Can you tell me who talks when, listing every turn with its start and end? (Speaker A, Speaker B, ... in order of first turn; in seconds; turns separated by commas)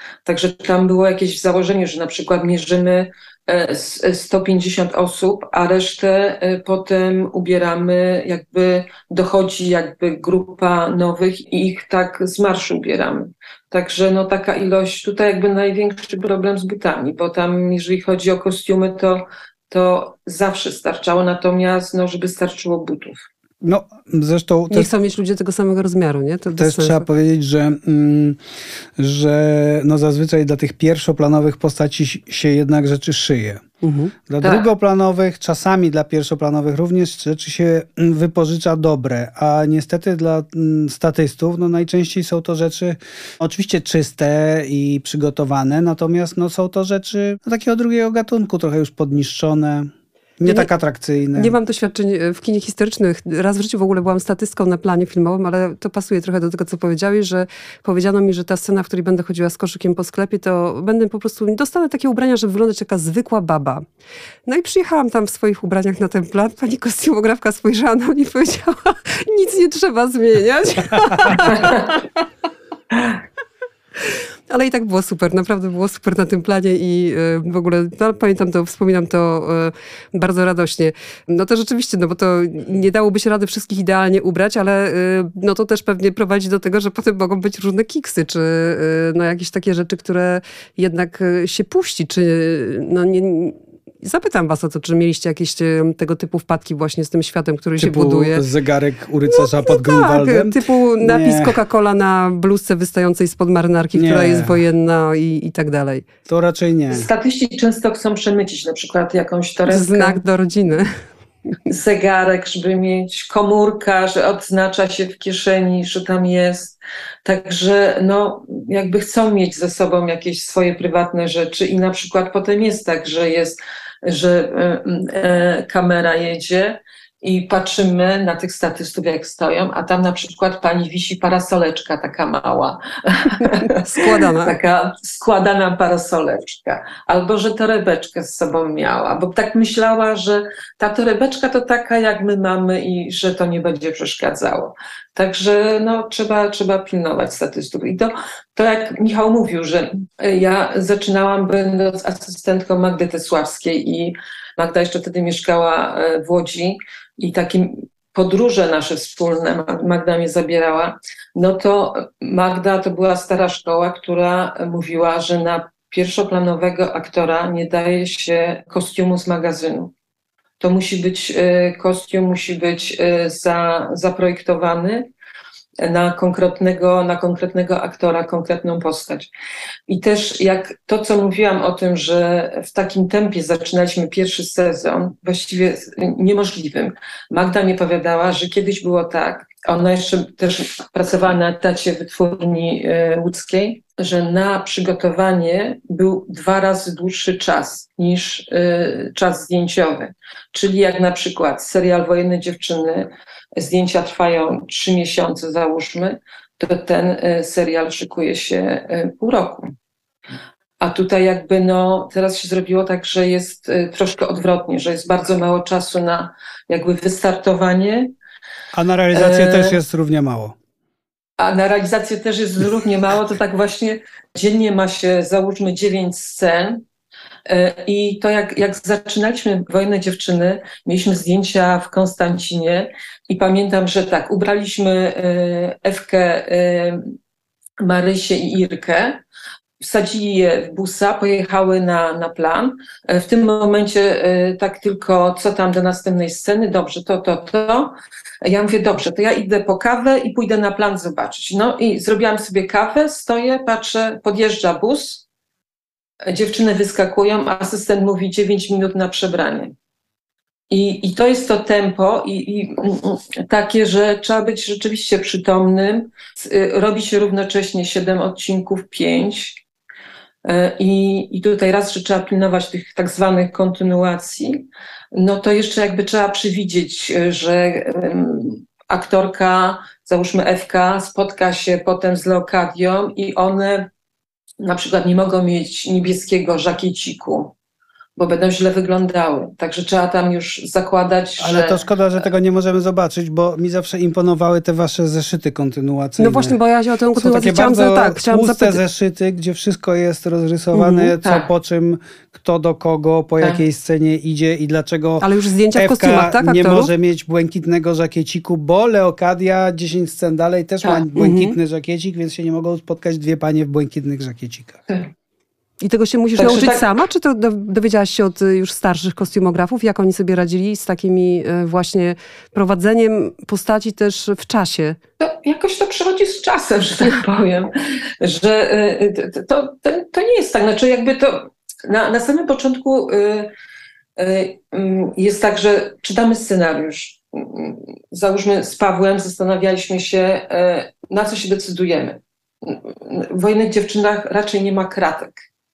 Speaker A: 0.2-23.2, Speaker B: 23.6-24.9, Speaker C: 24.7-27.0, Speaker B: 26.6-28.4, Speaker B: 29.0-33.6, Speaker C: 33.8-34.1, Speaker B: 34.3-51.5, Speaker A: 34.4-34.7, Speaker C: 51.3-63.8, Speaker C: 64.5-72.0, Speaker C: 74.5-98.4, Speaker B: 97.8-101.6, Speaker C: 99.3-106.0, Speaker B: 103.9-104.6, Speaker B: 106.2-107.1, Speaker A: 106.9-110.2, Speaker C: 109.7-110.9, Speaker A: 111.7-169.9, Speaker C: 133.4-134.6, Speaker A: 170.6-175.1, Speaker A: 175.8-179.3, Speaker A: 179.9-209.7, Speaker A: 210.8-218.1, Speaker B: 218.7-220.5, Speaker A: 219.1-219.8, Speaker A: 221.4-226.8, Speaker A: 227.4-237.1, Speaker A: 237.8-239.2, Speaker A: 239.8-255.2, Speaker A: 256.3-259.7, Speaker A: 260.7-269.6, Speaker A: 270.4-283.9, Speaker A: 284.6-287.5, Speaker A: 288.2-291.9, Speaker B: 291.4-296.6, Speaker C: 296.2-298.8, Speaker B: 297.1-314.8, Speaker A: 300.9-301.5, Speaker C: 305.2-306.9, Speaker C: 311.1-311.6, Speaker C: 315.8-325.0, Speaker A: 316.4-316.9, Speaker A: 325.2-333.5, Speaker A: 334.2-345.3